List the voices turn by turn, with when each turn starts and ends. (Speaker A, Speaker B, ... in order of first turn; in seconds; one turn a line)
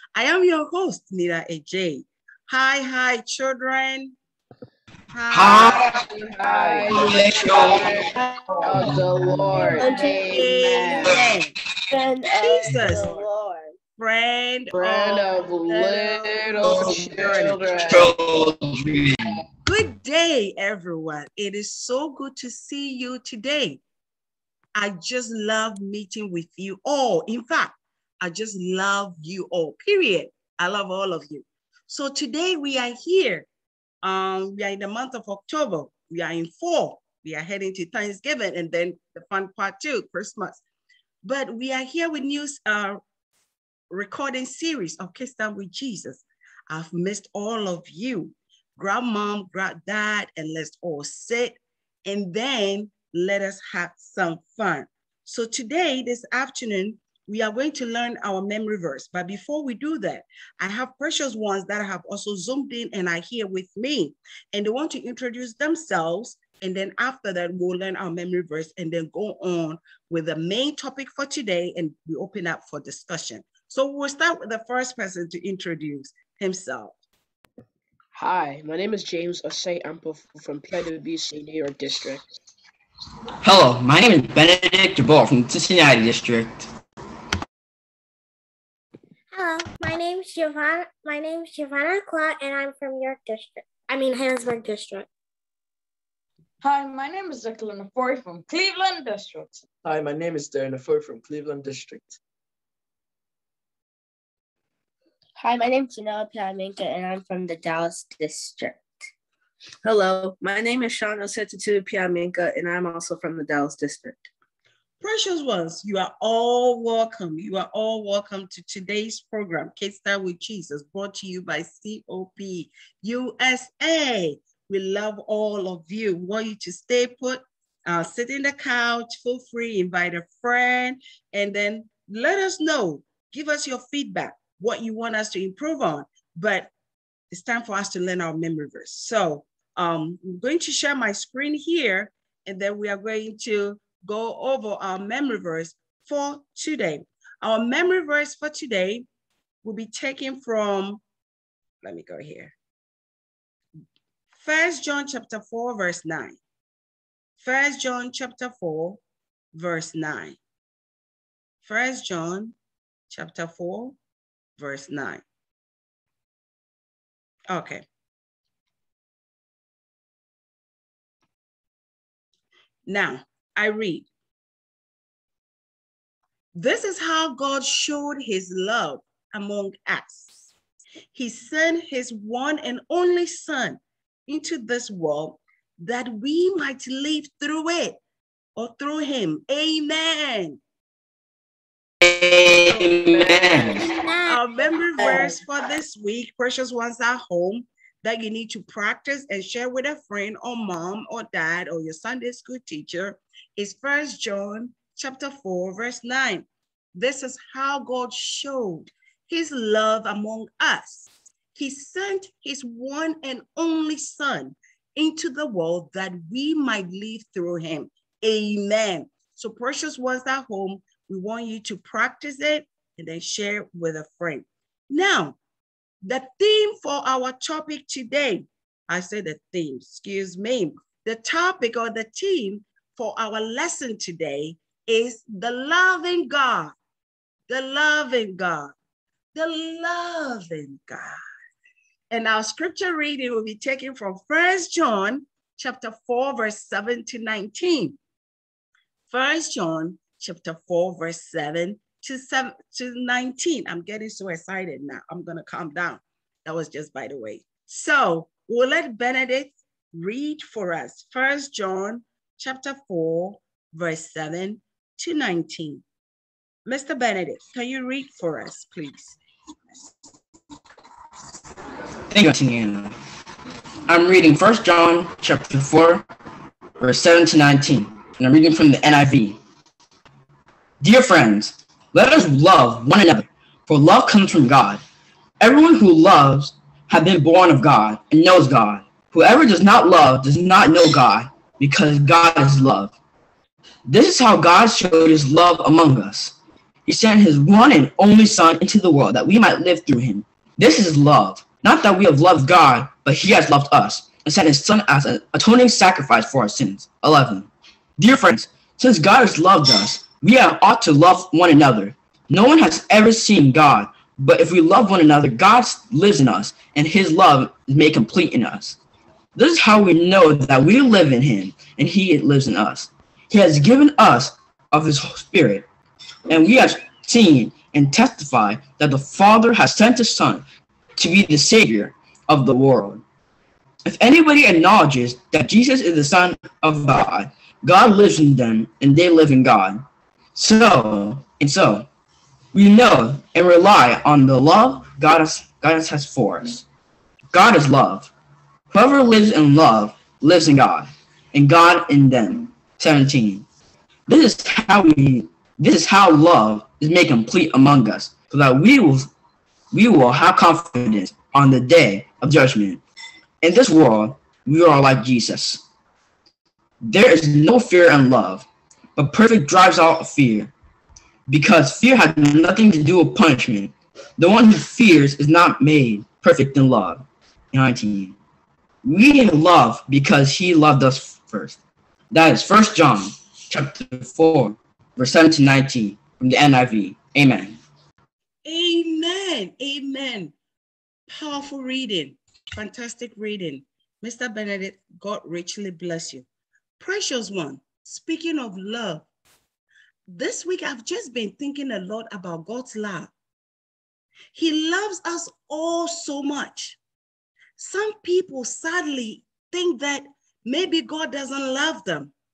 Speaker A: 0.1-4.1
Speaker A: 5.1-6.9
Speaker B: 5.3-6.0
Speaker C: 5.5-11.2
Speaker B: 6.9-9.8
Speaker D: 9.6-10.6
Speaker A: 9.7-11.6
Speaker D: 11.9-13.7
Speaker A: 12.3-13.2
Speaker A: 14.0-18.1
Speaker C: 14.7-18.1
Speaker B: 17.8-19.4
Speaker A: 19.6-23.8
Speaker A: 24.8-33.5
Speaker A: 34.0-40.6
Speaker A: 41.2-43.0
Speaker A: 43.9-77.0
Speaker C: 78.2-82.3
Speaker B: 83.4-86.7
Speaker E: 89.3-95.1
Speaker F: 96.6-99.6
Speaker G: 99.8-102.2
Speaker D: 105.4-108.8
Speaker H: 109.8-114.3
Speaker A: 115.0-136.7
Speaker A: 137.3-149.1
Speaker A: 149.6-151.0
Speaker A: 151.8-152.5
Speaker A: 154.3-156.4
Speaker A: 157.4-159.0
Speaker A: 159.5-160.4
Speaker A: 161.6-162.5
Speaker A: 163.1-164.0
Speaker A: 164.6-165.2
Speaker A: 167.5-167.8
Speaker A: 172.9-174.1
Speaker A: 176.5-180.3
Speaker A: 181.1-188.0
Speaker A: 188.6-190.6
Speaker B: 192.0-193.9
Speaker E: 193.5-194.4
Speaker A: 194.3-225.4
Speaker E: 195.0-195.4
Speaker A: 226.0-236.8
Speaker A: 237.5-238.7
Speaker A: 239.3-241.2
Speaker A: 242.1-248.0
Speaker A: 249.1-265.8
Speaker A: 266.7-269.2
Speaker B: 272.1-273.0
Speaker B: 273.9-276.1
Speaker B: 276.8-279.4
Speaker B: 280.8-284.8
Speaker B: 285.4-292.9
Speaker B: 293.9-318.8
Speaker B: 319.4-325.7
Speaker B: 326.3-330.4
Speaker B: 331.0-333.0
Speaker B: 333.9-339.8
Speaker B: 340.4-341.9
Speaker B: 342.5-346.6
Speaker B: 347.3-348.1
Speaker B: 348.7-353.4
Speaker B: 354.1-359.1
Speaker B: 359.7-362.8
Speaker B: 363.4-365.6
Speaker B: 366.8-370.5
Speaker B: 371.3-378.2
Speaker B: 378.8-381.6
Speaker B: 382.1-387.6
Speaker A: 388.4-390.3
Speaker A: 391.1-396.2
Speaker A: 396.8-399.1
Speaker A: 400.1-403.1
Speaker A: 404.3-406.8
Speaker A: 407.6-412.1